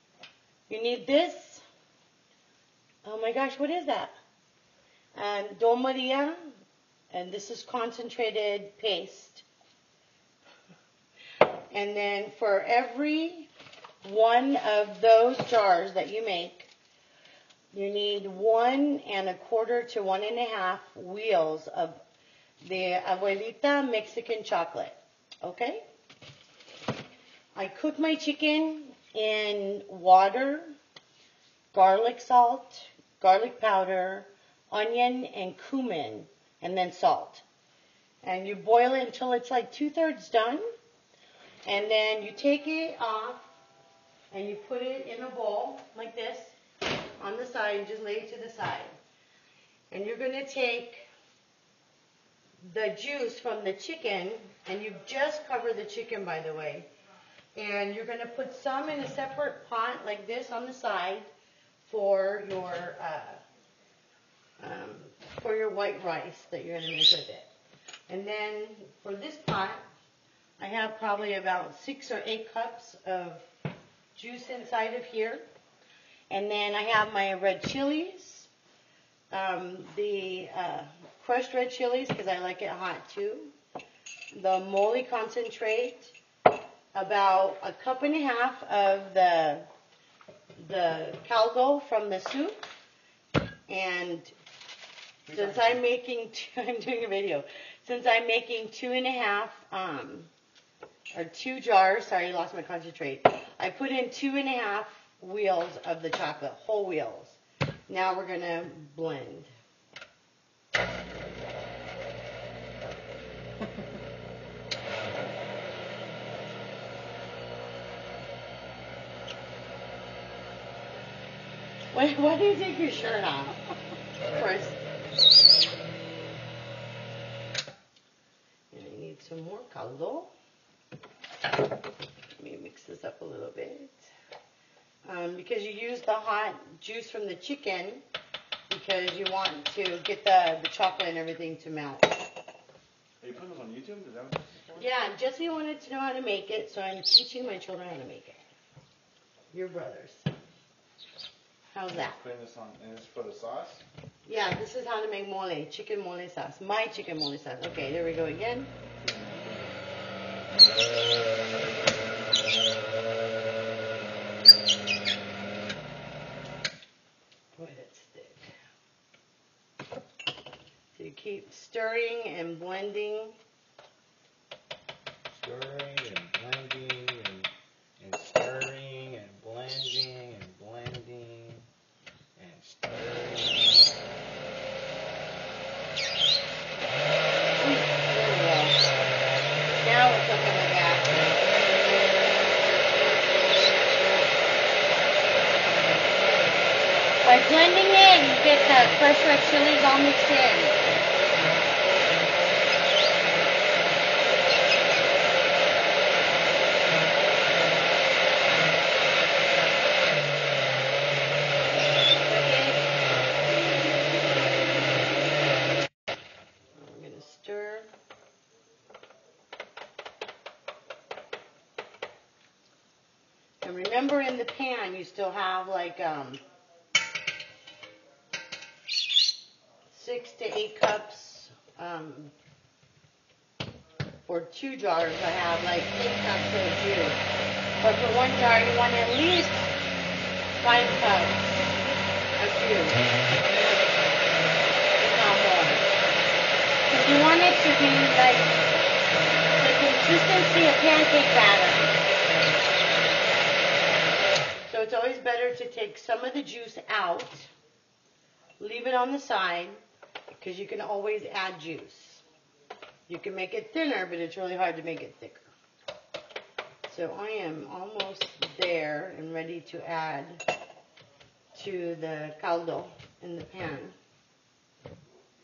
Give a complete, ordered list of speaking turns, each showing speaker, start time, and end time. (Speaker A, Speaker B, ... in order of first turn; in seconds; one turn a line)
Speaker A: 0.7-1.6
Speaker A: 3.0-4.1
Speaker A: 5.2-6.6
Speaker A: 7.1-9.5
Speaker A: 11.7-13.5
Speaker A: 14.0-16.7
Speaker A: 17.7-22.0
Speaker A: 22.6-25.8
Speaker A: 27.6-30.8
Speaker A: 31.7-37.5
Speaker A: 38.2-40.6
Speaker A: 41.6-43.5
Speaker A: 44.3-46.6
Speaker A: 47.2-49.0
Speaker A: 49.9-51.1
Speaker A: 52.6-56.9
Speaker A: 57.5-61.3
Speaker A: 61.9-63.4
Speaker A: 64.6-67.5
Speaker A: 68.1-69.8
Speaker A: 70.6-73.5
Speaker A: 74.2-75.4
Speaker A: 76.3-78.5
Speaker A: 79.3-83.5
Speaker A: 84.3-86.2
Speaker A: 86.9-89.7
Speaker A: 90.6-92.6
Speaker A: 93.7-94.3
Speaker B: 95.3-95.6
Speaker A: 95.3-100.3
Speaker A: 101.1-109.5
Speaker A: 121.9-123.6
Speaker A: 124.3-124.8
Speaker A: 128.7-130.3
Speaker A: 132.4-134.1
Speaker A: 135.1-138.1
Speaker A: 138.7-142.2
Speaker B: 143.2-144.8
Speaker A: 144.8-148.4
Speaker A: 149.5-150.3
Speaker A: 151.7-152.2
Speaker B: 151.9-153.8
Speaker A: 154.3-158.7
Speaker B: 159.0-159.8
Speaker B: 161.7-162.0
Speaker A: 167.6-168.5
Speaker A: 170.9-173.4
Speaker C: 175.3-181.7
Speaker C: 182.4-184.0
Speaker A: 187.6-188.8
Speaker A: 189.8-191.4
Speaker A: 197.2-200.9
Speaker A: 212.2-212.8
Speaker A: 216.8-217.9
Speaker A: 223.6-226.4
Speaker A: 229.9-232.3
Speaker A: 234.2-237.2
Speaker A: 237.8-239.7
Speaker A: 240.6-241.7
Speaker A: 242.4-243.0
Speaker A: 245.0-245.9
Speaker A: 246.9-248.6
Speaker A: 249.6-252.0
Speaker A: 254.7-257.5
Speaker A: 258.6-259.8
Speaker A: 260.4-262.2
Speaker A: 263.1-265.5
Speaker A: 266.9-270.4
Speaker A: 271.5-274.0